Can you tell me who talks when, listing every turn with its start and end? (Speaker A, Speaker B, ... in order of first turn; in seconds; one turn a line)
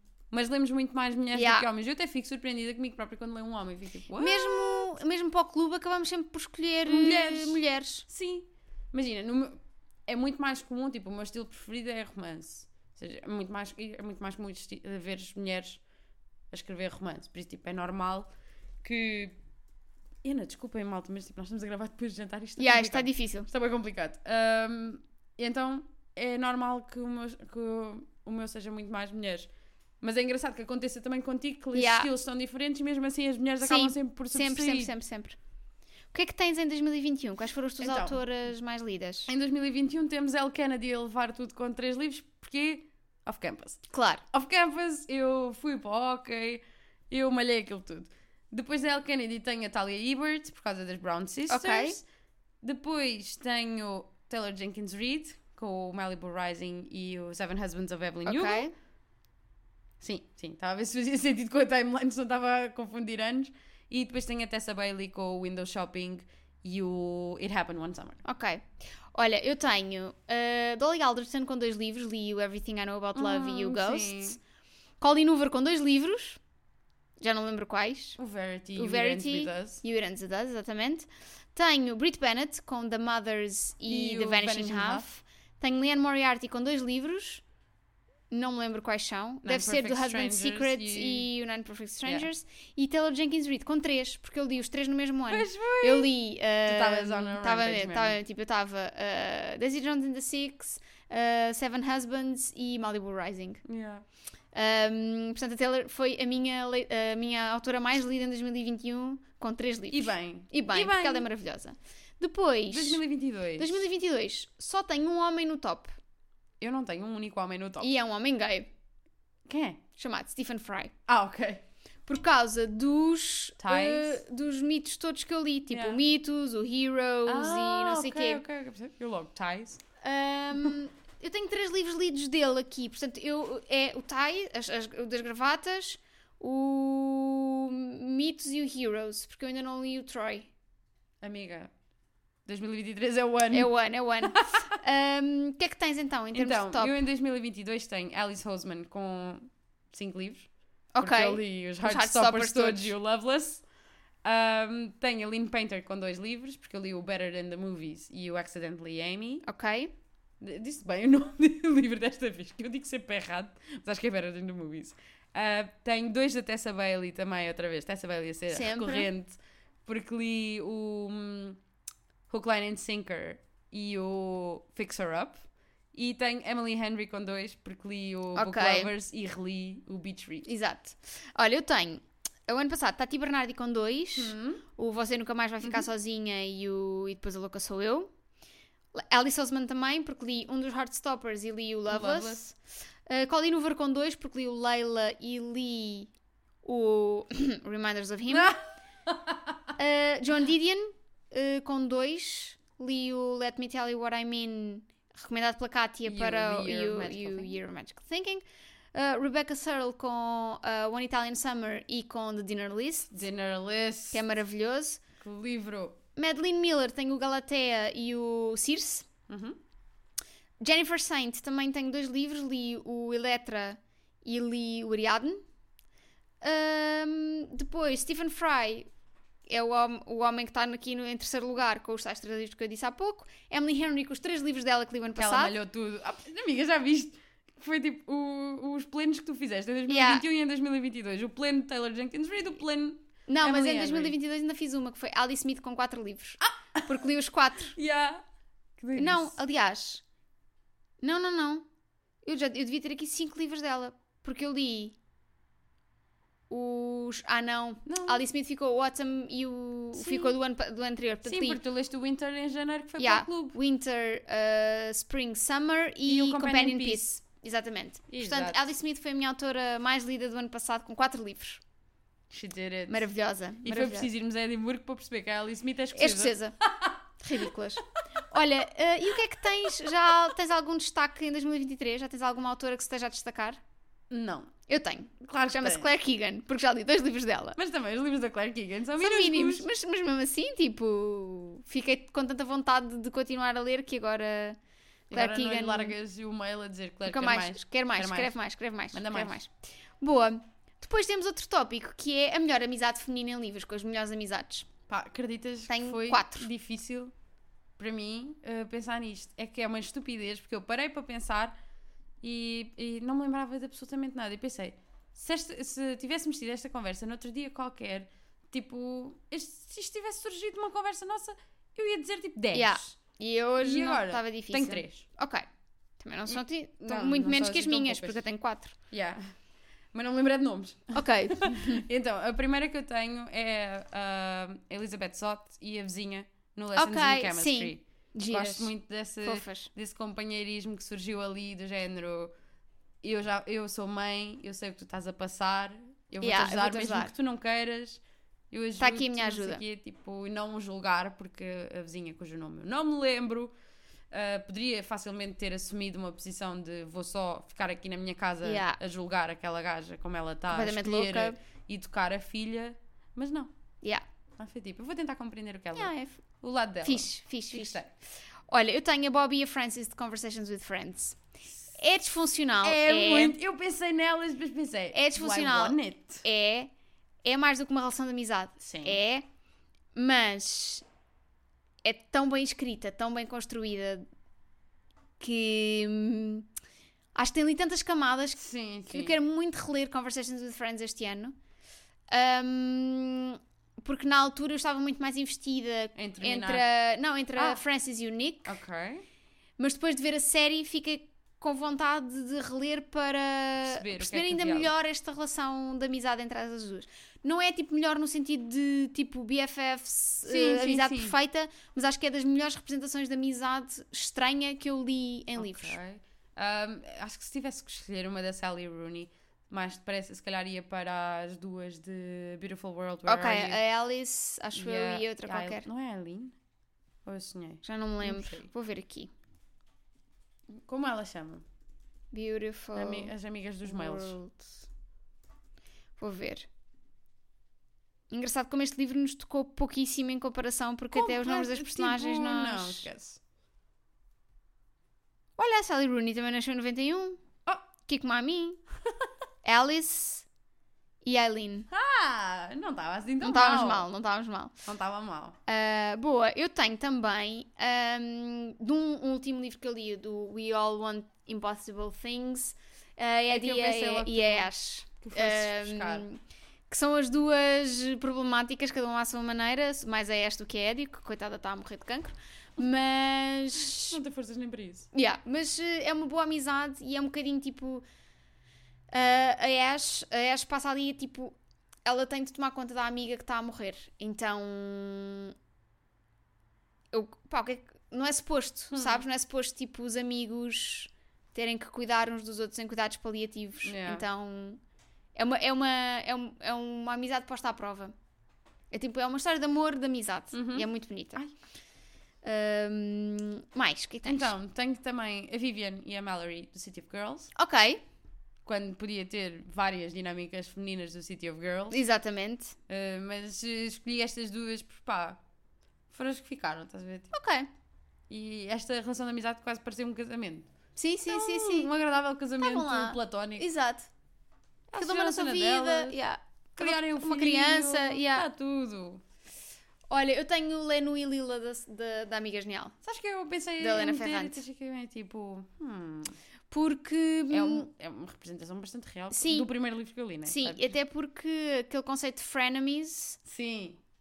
Speaker A: 0.3-5.0
Speaker B: 1.3-1.7
Speaker B: 4.2-8.1
Speaker A: 6.8-15.8
Speaker A: 16.5-18.3
Speaker A: 18.8-19.4
Speaker A: 20.2-29.5
Speaker B: 22.6-23.5
Speaker A: 30.0-34.9
Speaker B: 31.7-32.1
Speaker B: 33.6-35.4
Speaker B: 36.1-39.3
Speaker A: 37.8-38.2
Speaker A: 39.3-52.0
Speaker B: 43.9-44.2
Speaker B: 51.5-52.0
Speaker A: 52.6-58.7
Speaker B: 58.2-58.7
Speaker A: 60.0-68.2
Speaker B: 68.2-74.4
Speaker A: 73.1-74.4
Speaker B: 75.0-76.4
Speaker B: 77.2-78.2
Speaker A: 78.2-79.8
Speaker B: 78.8-87.4
Speaker A: 83.9-85.1
Speaker B: 88.3-103.6
Speaker A: 89.4-91.3
Speaker A: 95.3-98.2
Speaker A: 103.6-104.0
Speaker B: 104.5-113.0
Speaker A: 109.9-111.2
Speaker A: 112.7-113.8
Speaker B: 113.6-115.9
Speaker A: 116.6-117.9
Speaker B: 117.8-118.7
Speaker A: 119.5-119.8
Speaker B: 120.0-120.9
Speaker A: 121.1-121.6
Speaker B: 122.1-128.4
Speaker A: 123.6-124.2
Speaker A: 125.7-126.0
Speaker A: 127.3-129.8
Speaker B: 130.0-140.5
Speaker A: 141.2-141.7
Speaker A: 142.4-144.7
Speaker B: 143.5-147.0
Speaker A: 146.3-150.5
Speaker B: 150.9-152.9
Speaker A: 151.0-153.6
Speaker A: 154.2-159.4
Speaker B: 159.4-159.9
Speaker A: 160.4-171.6
Speaker B: 168.5-169.1
Speaker A: 172.3-180.5
Speaker B: 178.3-178.9
Speaker B: 180.4-188.1
Speaker A: 184.2-184.6
Speaker B: 188.9-192.5
Speaker A: 191.9-192.4
Speaker B: 193.1-196.1
Speaker B: 196.6-198.6
Speaker A: 198.3-199.7
Speaker B: 199.8-208.4
Speaker A: 206.0-207.6
Speaker B: 208.9-213.1
Speaker A: 213.1-214.2
Speaker B: 214.1-215.0
Speaker A: 215.2-216.0
Speaker B: 216.2-219.1
Speaker A: 219.3-219.6
Speaker B: 220.6-225.4
Speaker B: 226.4-228.9
Speaker B: 229.5-235.5
Speaker A: 235.2-244.2
Speaker B: 239.9-240.2
Speaker B: 243.3-247.8
Speaker A: 246.5-247.1
Speaker A: 247.7-248.2
Speaker A: 248.8-249.3
Speaker B: 248.9-250.0
Speaker B: 251.0-251.6
Speaker B: 252.2-254.9
Speaker B: 256.5-261.6
Speaker A: 257.9-258.2
Speaker A: 259.9-260.3
Speaker A: 261.2-263.6
Speaker B: 263.0-271.6
Speaker A: 266.1-267.0
Speaker A: 268.1-268.6
Speaker A: 272.3-273.1
Speaker B: 272.9-274.1
Speaker A: 273.6-277.0
Speaker B: 275.9-276.6
Speaker B: 277.2-283.6
Speaker A: 284.1-284.5
Speaker B: 284.7-287.6
Speaker A: 285.2-285.9
Speaker A: 287.6-289.7
Speaker B: 289.0-294.6
Speaker A: 295.1-298.3
Speaker B: 295.1-295.9
Speaker B: 297.0-304.7
Speaker A: 298.9-299.4
Speaker A: 304.9-307.1
Speaker B: 305.7-306.5
Speaker A: 307.8-311.6
Speaker A: 312.2-323.0
Speaker B: 322.5-325.4
Speaker A: 323.6-325.0
Speaker B: 326.0-328.8
Speaker A: 326.3-328.2
Speaker A: 328.9-329.3
Speaker A: 329.9-342.3
Speaker B: 330.9-331.8
Speaker B: 336.8-339.7
Speaker A: 343.0-353.5
Speaker B: 346.2-347.1
Speaker B: 348.8-349.6
Speaker A: 354.1-363.5
Speaker B: 358.4-358.8
Speaker B: 360.5-361.4
Speaker A: 364.4-367.9
Speaker B: 365.7-366.2
Speaker B: 366.8-367.8
Speaker B: 368.5-371.2
Speaker B: 371.7-373.4
Speaker A: 372.6-376.2
Speaker B: 374.9-376.7
Speaker B: 377.2-379.2
Speaker A: 378.6-379.0
Speaker B: 379.9-380.8
Speaker B: 381.8-384.0
Speaker B: 385.2-386.5
Speaker B: 387.1-391.4
Speaker A: 388.4-389.1
Speaker B: 392.1-398.6
Speaker A: 395.9-396.7
Speaker A: 397.4-397.6
Speaker A: 398.4-399.0
Speaker B: 399.6-415.8
Speaker A: 403.6-404.7
Speaker A: 410.2-411.1
Speaker A: 415.4-423.6
Speaker B: 423.1-425.6
Speaker A: 424.5-426.3
Speaker A: 427.0-428.5
Speaker B: 427.6-429.1
Speaker A: 430.5-431.4
Speaker B: 432.1-434.6
Speaker A: 432.7-434.1
Speaker B: 436.0-436.5
Speaker B: 438.1-442.9
Speaker A: 440.9-443.2
Speaker B: 445.4-447.2
Speaker B: 447.8-448.6
Speaker B: 449.4-450.2
Speaker B: 451.0-451.7
Speaker A: 451.7-453.8
Speaker B: 453.2-454.6
Speaker A: 454.6-455.4
Speaker B: 455.4-474.0
Speaker A: 463.3-464.5
Speaker A: 465.0-466.1
Speaker A: 473.6-474.9
Speaker B: 474.9-477.8
Speaker B: 478.9-485.3
Speaker B: 486.9-494.6
Speaker A: 488.7-489.0
Speaker A: 493.6-494.0
Speaker B: 495.1-497.9
Speaker B: 498.7-501.2
Speaker A: 500.3-501.3
Speaker B: 502.2-504.3
Speaker A: 504.0-507.3
Speaker B: 507.3-507.8
Speaker A: 508.4-511.8
Speaker B: 511.7-512.5
Speaker A: 512.7-515.2
Speaker A: 515.9-517.1
Speaker B: 517.1-517.5
Speaker A: 518.1-520.5
Speaker B: 520.8-521.7
Speaker A: 521.1-523.5
Speaker B: 522.4-523.9
Speaker A: 524.7-526.0
Speaker B: 524.8-528.2
Speaker A: 526.5-529.0
Speaker B: 529.9-532.7
Speaker A: 532.8-536.2
Speaker B: 533.6-534.4
Speaker B: 536.5-537.7
Speaker A: 537.3-540.7
Speaker B: 539.1-539.5
Speaker B: 540.2-543.2
Speaker A: 543.2-543.8